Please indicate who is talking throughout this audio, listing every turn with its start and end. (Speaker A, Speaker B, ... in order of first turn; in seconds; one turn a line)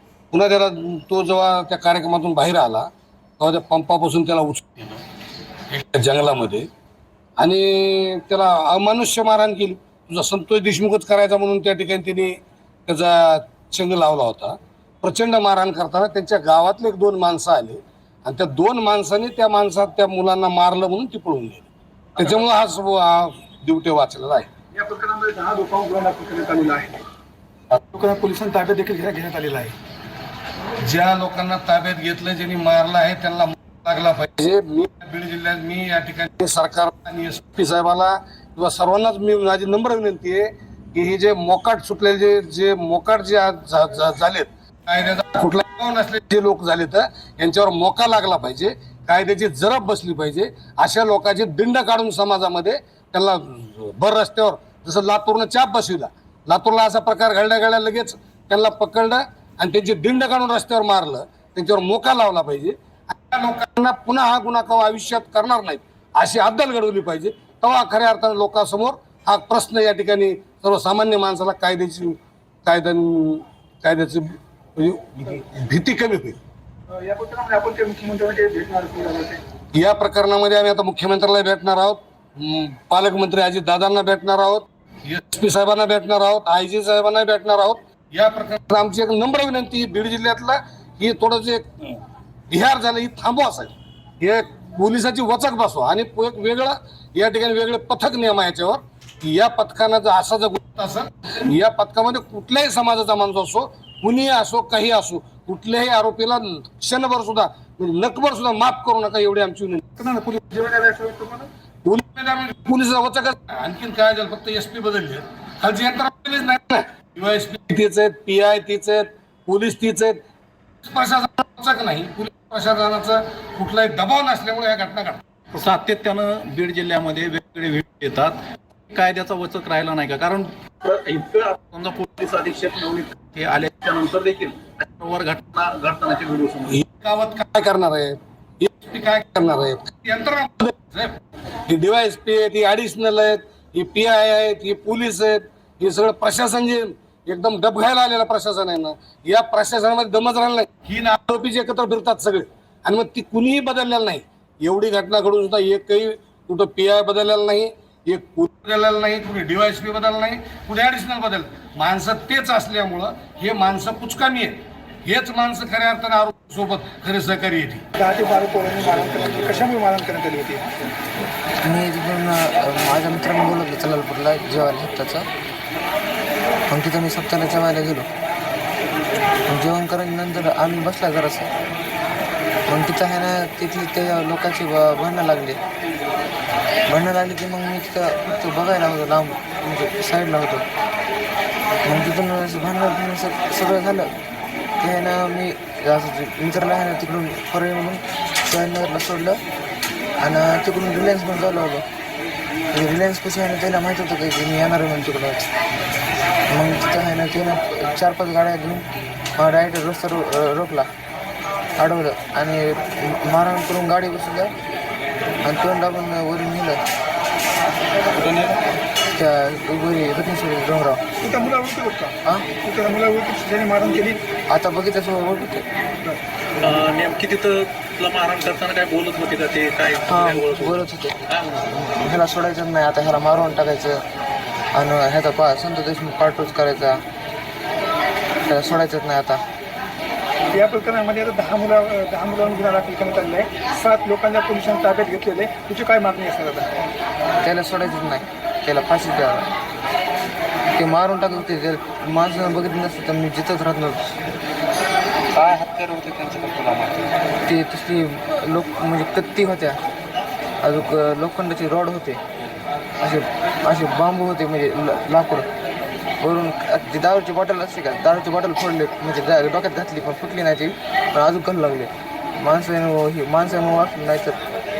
Speaker A: 0.3-5.0
Speaker A: 5.7-6.7
Speaker A: 7.4-24.5
Speaker B: 24.7-27.0
Speaker B: 27.8-29.8
Speaker A: 30.8-76.4
Speaker B: 76.9-79.4
Speaker A: 79.7-92.0
Speaker A: 92.5-109.9
Speaker B: 110.0-111.5
Speaker A: 111.8-120.2
Speaker A: 120.8-125.2
Speaker C: 125.5-136.8
Speaker A: 136.7-167.8
Speaker B: 167.9-170.7
Speaker D: 171.6-175.3
Speaker D: 176.7-178.1
Speaker D: 179.5-181.5
Speaker D: 182.7-185.6
Speaker D: 186.9-190.6
Speaker D: 191.8-194.1
Speaker D: 194.8-199.4
Speaker D: 200.2-201.8
Speaker D: 202.7-205.4
Speaker D: 206.5-210.9
Speaker D: 211.8-214.5
Speaker D: 215.4-216.8
Speaker C: 218.2-218.7
Speaker D: 219.1-221.0
Speaker B: 221.2-224.2
Speaker D: 224.5-225.7
Speaker C: 226.6-231.7
Speaker D: 230.1-231.2
Speaker D: 231.7-234.0
Speaker D: 234.7-237.0
Speaker D: 238.4-239.4
Speaker B: 240.5-246.8
Speaker D: 247.4-249.5
Speaker D: 250.7-254.1
Speaker D: 255.3-259.8
Speaker D: 260.6-262.2
Speaker D: 263.0-265.5
Speaker D: 266.2-274.4